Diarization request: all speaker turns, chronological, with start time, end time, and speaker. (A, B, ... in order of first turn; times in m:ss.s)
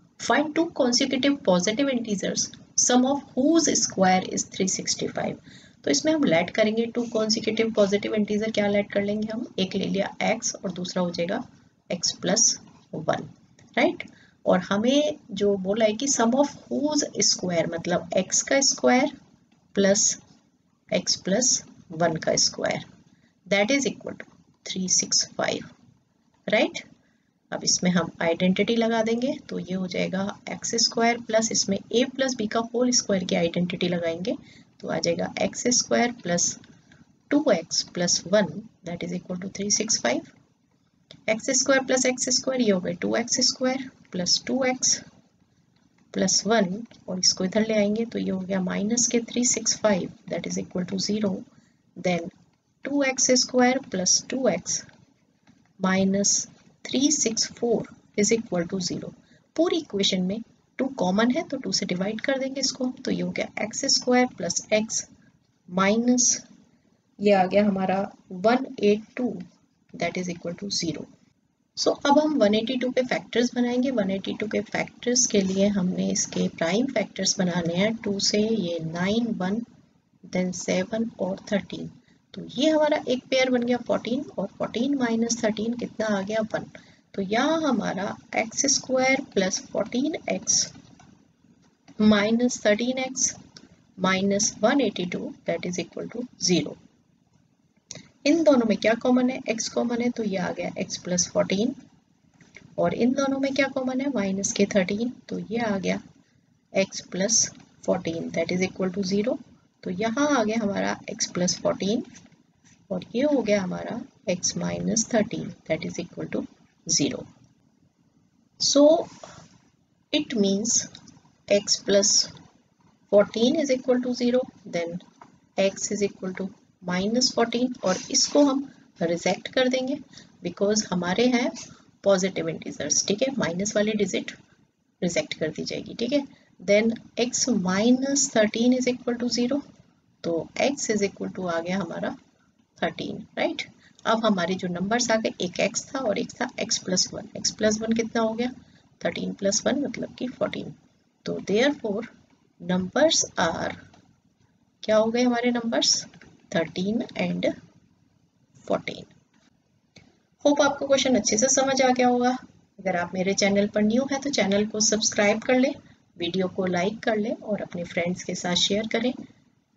0:00.2-0:19.1 A
0:19.7-0:20.2 A
0:20.9-0:22.8 A
0:23.5-0:25.7 A
0:26.5-0:26.8 A
0:27.5-0:36.6 A
0:37.3-0:40.3 A
0:41.3-0:45.0 A
0:46.1-0:51.5 A
0:52.0-0:52.3 A
0:52.8-0:54.9 A
0:55.8-1:05.1 A
1:05.7-1:06.4 A
1:07.2-1:09.4 A
1:10.0-1:11.1 A
1:11.8-1:19.7 A
1:20.3-1:30.7 A
1:32.0-1:33.4 A
1:34.0-1:36.8 A
1:38.2-1:41.8 A
1:42.8-1:46.0 A
1:46.7-1:52.1 A
1:52.9-1:57.3 A
1:58.6-1:59.2 A
2:00.1-2:00.9 A
2:01.5-2:02.3 A
2:03.1-2:05.0 A
2:05.6-2:14.4 A
2:15.0-2:19.6 A
2:20.2-2:22.2 A
2:22.8-2:33.8 A
2:34.8-2:37.5 A
2:38.6-2:39.1 A
2:40.4-2:49.2 A